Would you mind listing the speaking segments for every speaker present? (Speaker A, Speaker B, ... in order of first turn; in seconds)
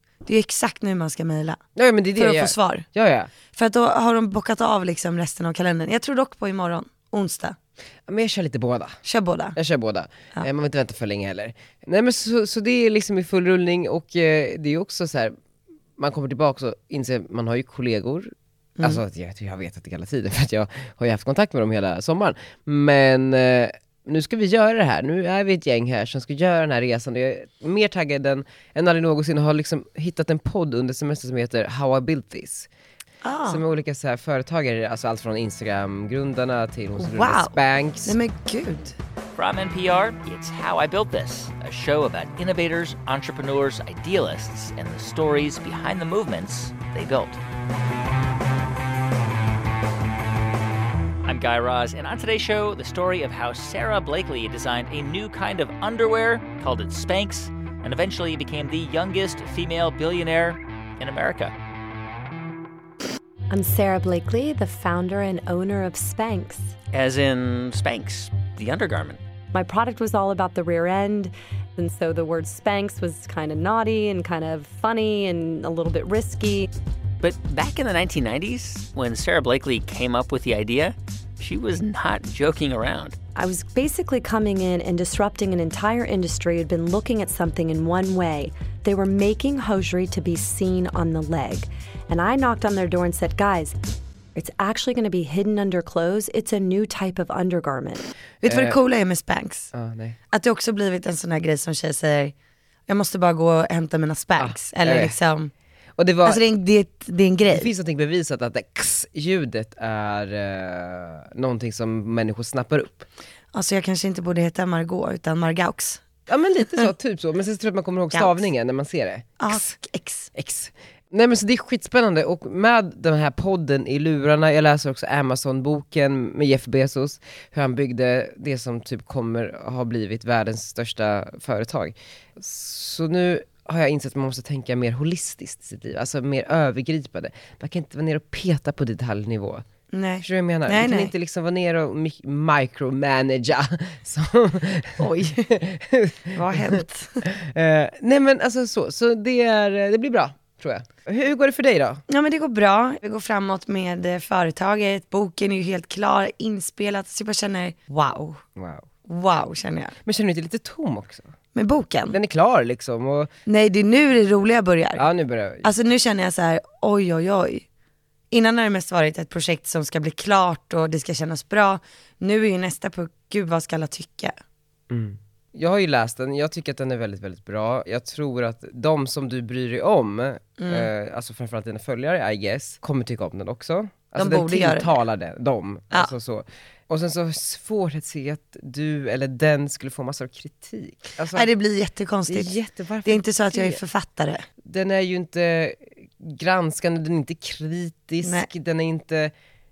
Speaker A: 0.2-1.6, 2.1-2.8, 3.5-7.5, 9.0-9.6, 33.2-33.6, 37.0-39.0, 98.4-99.7, 100.3-102.3, 102.9-105.5, 106.2-107.7, 113.5-116.0, 119.4-120.3, 139.9-141.1, 145.0-145.5, 146.3-147.2, 152.1-158.4, 159.1-159.9, 161.5-162.2, 163.4-165.0, 165.6-167.6, 168.3-174.3, 180.6-180.9, 184.2-184.9, 191.3-192.5, 193.0-194.4, 198.2-198.5
Speaker B: 1.8-3.3, 8.1-9.0, 9.5-15.3, 16.0-32.7, 33.5-38.1, 98.4-98.8, 99.7-100.2, 104.4-105.2, 106.0-106.4, 107.5-113.1, 116.3-119.7, 120.3-139.7, 140.2-152.0, 158.6-158.8, 160.0-161.3, 162.1-163.3, 164.9-165.7, 174.9-191.5, 192.3-193.8, 194.6-199.3
Speaker C: 39.4-47.4, 51.2-61.5, 66.9-69.2, 77.2-83.2
Speaker D: 63.5-66.7, 69.5-76.7, 83.3-93.8, 94.3-98.1